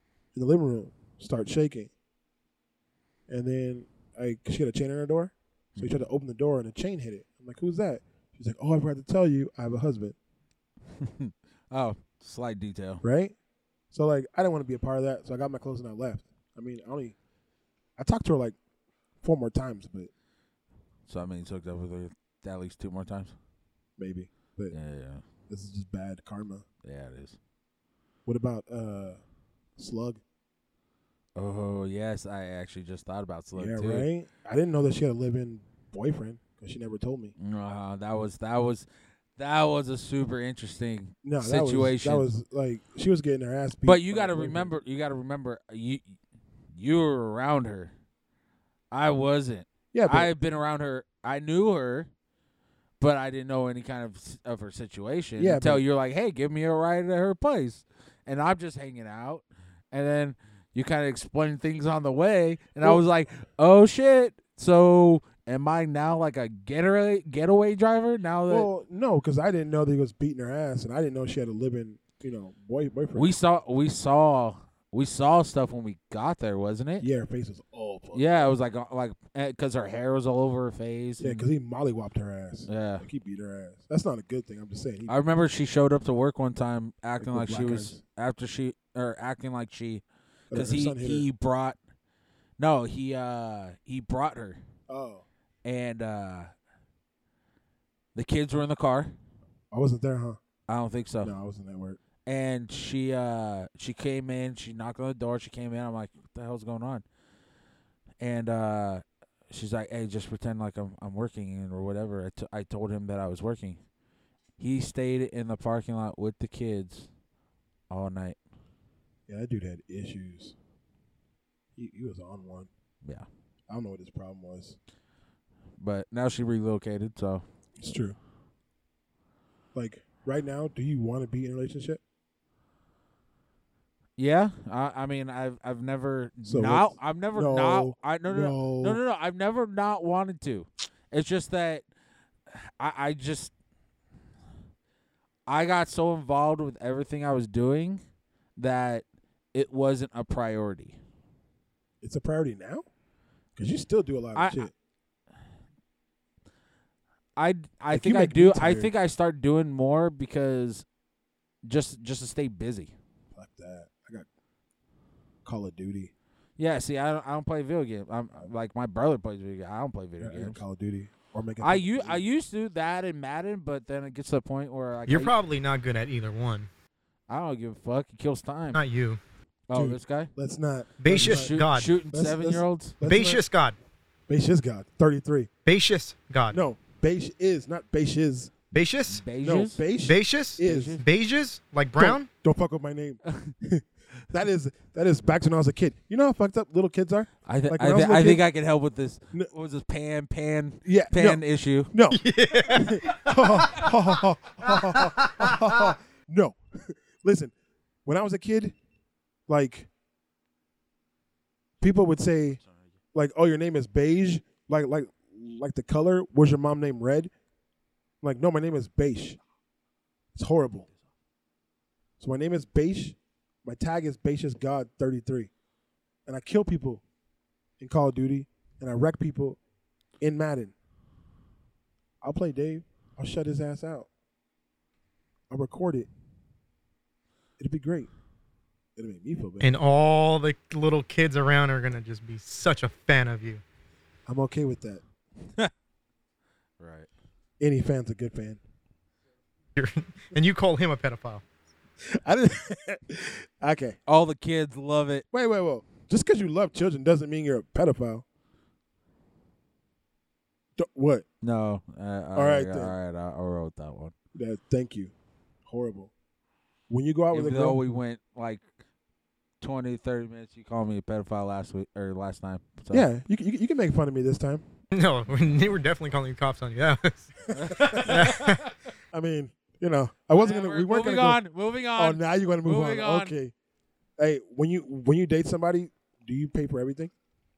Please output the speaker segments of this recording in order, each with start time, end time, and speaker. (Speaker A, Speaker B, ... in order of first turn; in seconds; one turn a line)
Speaker A: 0.3-1.9
Speaker A: 3.3-10.2
Speaker B: 11.0-13.0
Speaker A: 13.0-13.3
Speaker A: 13.9-17.1
Speaker A: 18.0-18.6
Speaker A: 19.2-20.1
Speaker B: 21.1-23.3
Speaker A: 24.0-24.8
Speaker B: 24.7-25.2
Speaker A: 25.5-26.6
Speaker B: 26.8-27.4
Speaker A: 28.2-29.2
Speaker A: 29.8-30.2
Speaker B: 31.4-34.1
Speaker A: 33.5-37.3
Speaker B: 37.4-38.9
Speaker B: 39.4-42.3
Speaker A: 41.2-44.7
Speaker B: 43.8-46.1
Speaker B: 46.8-47.9
Speaker B: 48.9-52.1
Speaker A: 49.9-50.3
Speaker B: 53.0-68.7
Speaker A: 55.4-55.8
Speaker A: 68.5-73.3
Speaker B: 73.1-77.1
Speaker A: 77.0-78.5
Speaker B: 78.1-81.5
Speaker A: 81.2-85.2
Speaker B: 82.7-83.0
Speaker B: 85.1-91.8
Speaker A: 87.2-88.0
Speaker A: 90.5-91.2
Speaker B: 92.6-94.6
Speaker A: 94.9-95.2
Speaker B: 95.6-96.5
Speaker B: 98.1-99.1
Speaker A: 99.7-100.4
Speaker B: 100.7-101.3
Speaker A: 101.2-102.0
Speaker B: 102.2-107.0
Speaker B: 108.2-113.8
Speaker B: 114.6-117.1
Speaker B: 117.9-118.4
Speaker A: 119.3-120.5
Speaker A: 121.8-122.7
Speaker A: 123.7-124.8
Speaker B: 125.8-127.4
Speaker A: 127.8-128.2
Speaker A: 129.7-132.0
Speaker B: 134.2-141.8
Speaker A: 136.4-139.0
Speaker B: 142.5-143.5
Speaker B: 145.5-148.0
Speaker B: 148.6-151.0
Speaker A: 152.0-152.8
Speaker A: 153.6-154.7
Speaker B: 154.3-154.7
Speaker B: 157.4-160.8
Speaker A: 157.9-158.9
Speaker B: 161.6-162.9
Speaker A: 163.3-164.3
Speaker A: 165.4-166.1
Speaker B: 166.6-170.6
Speaker A: 170.2-172.2
Speaker B: 171.6-175.3
Speaker C: 175.1-176.7
Speaker B: 177.3-178.8
Speaker C: 178.7-179.2
Speaker B: 179.7-180.3
Speaker A: 179.7-181.6
Speaker C: 181.0-181.9
Speaker B: 181.1-183.0
Speaker A: 182.1-183.4
Speaker C: 183.0-183.8
Speaker A: 184.3-185.5
Speaker C: 185.6-186.6
Speaker A: 186.5-188.5
Speaker C: 188.7-189.2
Speaker B: 189.1-189.8
Speaker A: 189.4-191.0
Speaker C: 190.0-192.3
Speaker B: 190.6-191.0
Speaker A: 192.0-198.4
Speaker B: 193.3-193.5
Speaker B: 197.5-201.9
Speaker A: 200.8-207.5
Speaker C: 202.1-203.9
Speaker C: 204.6-205.5
Speaker A: 208.0-208.8
Speaker A: 209.5-209.9
Speaker A: 211.8-212.6
Speaker A: 213.1-217.3
Speaker A: 218.2-219.4
Speaker A: 220.3-220.9
Speaker A: 222.2-225.5
Speaker A: 226.2-227.0
Speaker A: 227.8-229.6
Speaker A: 230.2-230.7
Speaker A: 232.2-234.1
Speaker A: 235.5-236.1
Speaker A: 237.6-238.1
Speaker A: 238.9-239.7
Speaker C: 239.6-243.6
Speaker A: 244.3-245.0
Speaker B: 246.8-247.1
Speaker A: 247.6-248.6
Speaker C: 249.8-251.4
Speaker A: 252.1-254.0
Speaker B: 254.1-255.2
Speaker A: 255.3-258.2
Speaker A: 260.8-261.2
Speaker B: 261.4-264.1
Speaker A: 262.3-262.9
Speaker A: 264.3-265.1
Speaker A: 265.6-266.1
Speaker A: 266.9-267.8
Speaker B: 267.3-268.6
Speaker B: 269.6-273.0
Speaker A: 272.9-274.6
Speaker C: 274.9-277.3
Speaker B: 277.5-278.8
Speaker A: 277.6-278.2
Speaker C: 278.0-278.6
Speaker A: 279.1-281.4
Speaker B: 280.4-283.4
Speaker A: 281.9-283.5
Speaker A: 284.2-287.1